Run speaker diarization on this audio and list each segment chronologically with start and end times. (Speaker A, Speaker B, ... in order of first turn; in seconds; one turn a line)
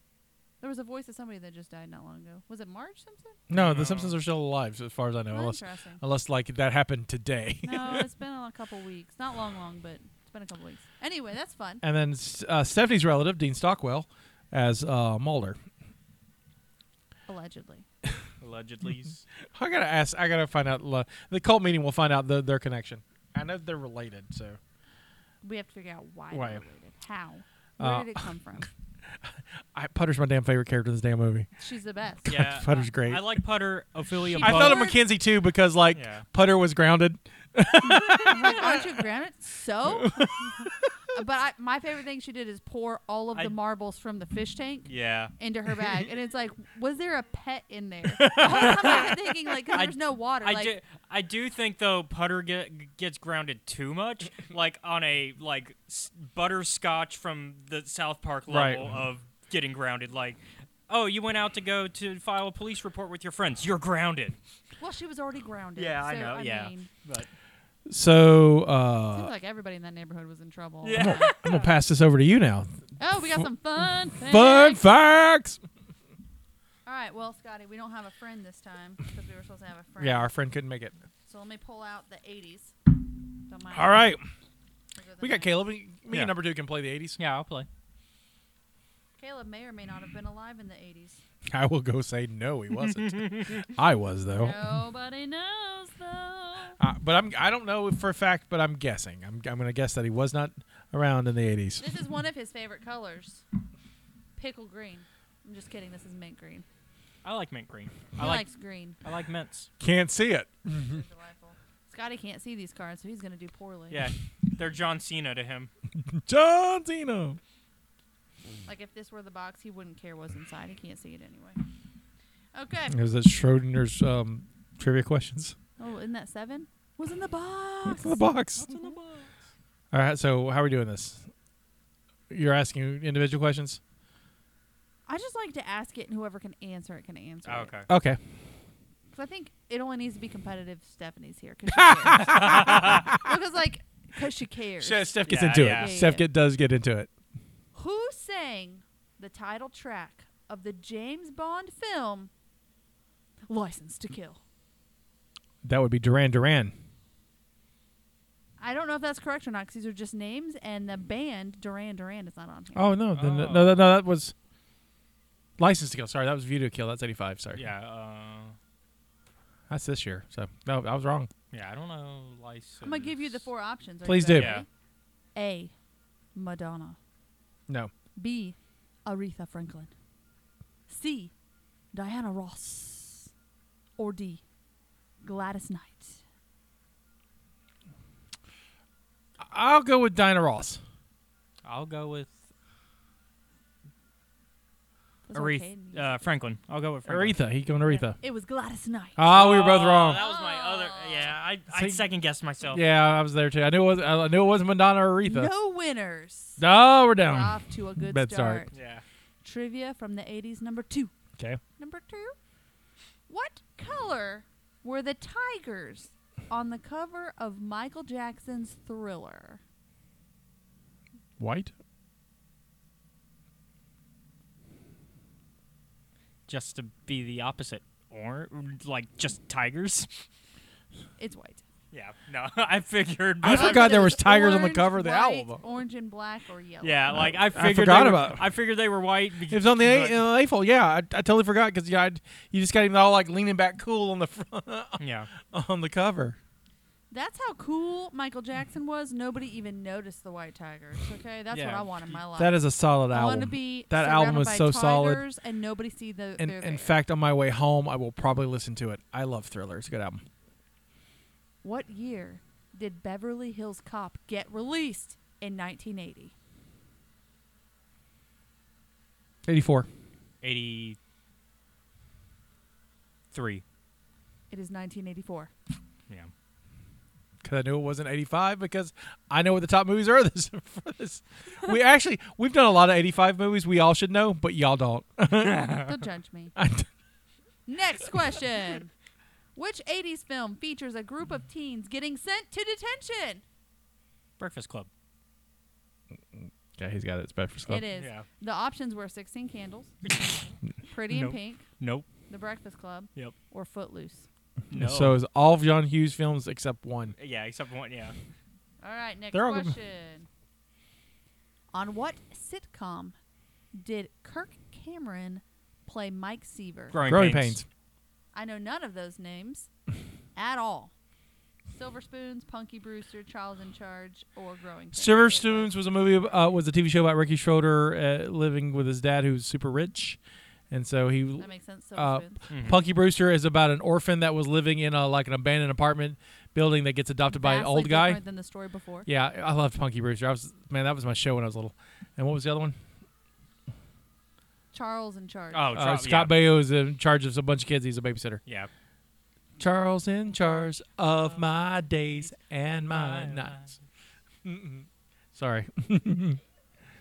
Speaker A: 0.6-3.4
Speaker B: 3.5-8.1
Speaker C: 3.5-4.2
Speaker A: 5.3-6.0
Speaker A: 7.6-11.8
Speaker B: 11.8-15.6
Speaker A: 17.3-17.8
Speaker C: 18.4-19.2
Speaker B: 19.5-24.6
Speaker A: 25.4-28.7
Speaker B: 26.3-26.6
Speaker B: 27.8-28.2
Speaker B: 29.2-31.5
Speaker A: 31.6-32.3
Speaker B: 32.2-33.2
Speaker C: 32.2-34.9
Speaker A: 34.3-35.0
Speaker B: 34.4-39.0
Speaker C: 35.9-36.2
Speaker A: 37.8-50.7
Speaker B: 39.9-40.9
Speaker C: 44.9-45.3
Speaker B: 48.1-49.1
Speaker C: 48.4-49.0
Speaker C: 49.7-64.4
Speaker B: 58.5-58.9
Speaker A: 64.8-66.9
Speaker C: 65.8-67.3
Speaker B: 67.9-69.3
Speaker A: 69.1-71.3
Speaker C: 70.8-71.7
Speaker B: 71.0-72.7
Speaker A: 73.0-74.8
Speaker B: 74.2-75.6
Speaker A: 76.8-80.3
Speaker B: 80.0-80.9
Speaker A: 81.2-82.7
Speaker A: 83.5-84.0
Speaker B: 83.7-84.2
Speaker A: 84.9-85.6
Speaker B: 85.2-87.2
Speaker C: 87.2-87.7
Speaker A: 89.2-91.2
Speaker B: 91.5-94.6
Speaker C: 93.0-93.6
Speaker A: 94.3-96.8
Speaker B: 96.8-101.8
Speaker A: 101.8-103.4
Speaker A: 104.3-106.6
Speaker C: 107.2-108.5
Speaker A: 108.2-109.0
Speaker C: 109.0-109.7
Speaker B: 109.8-111.0
Speaker A: 110.8-114.0
Speaker C: 113.9-115.7
Speaker B: 116.0-117.4
Speaker A: 118.7-121.6
Speaker A: 122.5-123.0
Speaker B: 122.9-125.5
Speaker A: 125.8-128.2
Speaker B: 127.8-128.7
Speaker C: 128.6-129.3
Speaker B: 129.9-131.3
Speaker B: 132.3-133.8
Speaker A: 135.1-137.7
Speaker C: 137.4-137.9
Speaker B: 137.9-138.2
Speaker A: 139.1-146.3
Speaker B: 141.7-143.3
Speaker C: 142.2-143.1
Speaker B: 144.8-147.1
Speaker C: 145.2-145.9
Speaker A: 147.7-152.3
Speaker A: 153.5-154.4
Speaker B: 155.6-156.7
Speaker A: 158.6-162.9
Speaker B: 162.7-164.3
Speaker C: 163.1-163.9
Speaker B: 165.6-167.6
Speaker C: 167.5-168.6
Speaker B: 169.7-171.3
Speaker C: 171.5-173.4
Speaker A: 172.8-174.7
Speaker B: 174.0-174.6
Speaker C: 174.3-174.6
Speaker A: 175.3-175.7
Speaker A: 176.3-177.0
Speaker A: 178.2-179.9
Speaker A: 180.9-181.3
Speaker A: 181.9-183.3
Speaker A: 184.0-184.4
Speaker A: 185.2-186.2
Speaker B: 189.4-190.8
Speaker C: 191.6-192.3
Speaker A: 195.3-196.2
Speaker C: 195.3-197.3
Speaker B: 197.1-198.2
Speaker A: 197.8-199.2
Speaker B: 199.2-200.2
Speaker C: 199.2-202.8
Speaker A: 200.1-201.3
Speaker B: 201.7-202.0
Speaker B: 202.7-205.5
Speaker A: 205.2-206.6
Speaker B: 206.6-208.6
Speaker A: 207.2-208.7
Speaker C: 208.7-209.0
Speaker A: 209.4-211.1
Speaker A: 211.8-212.3
Speaker A: 213.3-219.6
Speaker B: 221.4-221.7
Speaker C: 226.5-230.2
Speaker A: 231.2-231.6
Speaker C: 231.9-234.1
Speaker B: 233.4-235.6
Speaker A: 233.5-237.4
Speaker C: 236.8-240.2
Speaker B: 237.5-238.5
Speaker B: 239.5-246.4
Speaker C: 245.0-245.3
Speaker A: 247.1-252.6
Speaker C: 251.5-252.2
Speaker B: 252.3-255.2
Speaker A: 253.1-256.9
Speaker B: 256.4-260.2
Speaker A: 261.6-266.3
Speaker B: 269.4-269.9
Speaker C: 270.4-271.0
Speaker C: 273.3-273.6
Speaker A: 274.5-275.5
Speaker B: 277.4-285.8
Speaker C: 285.4-285.9
Speaker A: 285.8-286.5
Speaker B: 286.6-286.9
Speaker A: 287.7-288.9
Speaker A: 289.6-293.4
Speaker C: 294.4-294.9
Speaker B: 296.3-297.8
Speaker A: 297.6-299.9
Speaker C: 297.9-298.2
Speaker C: 300.0-300.4
Speaker A: 300.9-301.6
Speaker C: 301.1-302.1
Speaker A: 302.3-304.3
Speaker C: 304.7-305.2
Speaker B: 304.7-307.1
Speaker C: 307.1-308.2
Speaker A: 308.8-310.3
Speaker B: 309.3-309.7
Speaker A: 311.7-313.1
Speaker A: 313.7-317.0
Speaker C: 316.9-317.6
Speaker B: 317.0-317.6
Speaker A: 318.3-319.7
Speaker A: 320.4-320.9
Speaker A: 321.7-325.7
Speaker B: 324.9-330.2
Speaker B: 330.7-338.2
Speaker A: 331.4-332.4
Speaker C: 332.5-332.8
Speaker A: 337.3-339.1
Speaker B: 339.1-342.8
Speaker A: 344.7-345.7
Speaker C: 345.5-346.4
Speaker B: 345.7-348.4
Speaker B: 349.6-353.6
Speaker C: 352.9-353.8
Speaker B: 354.4-356.4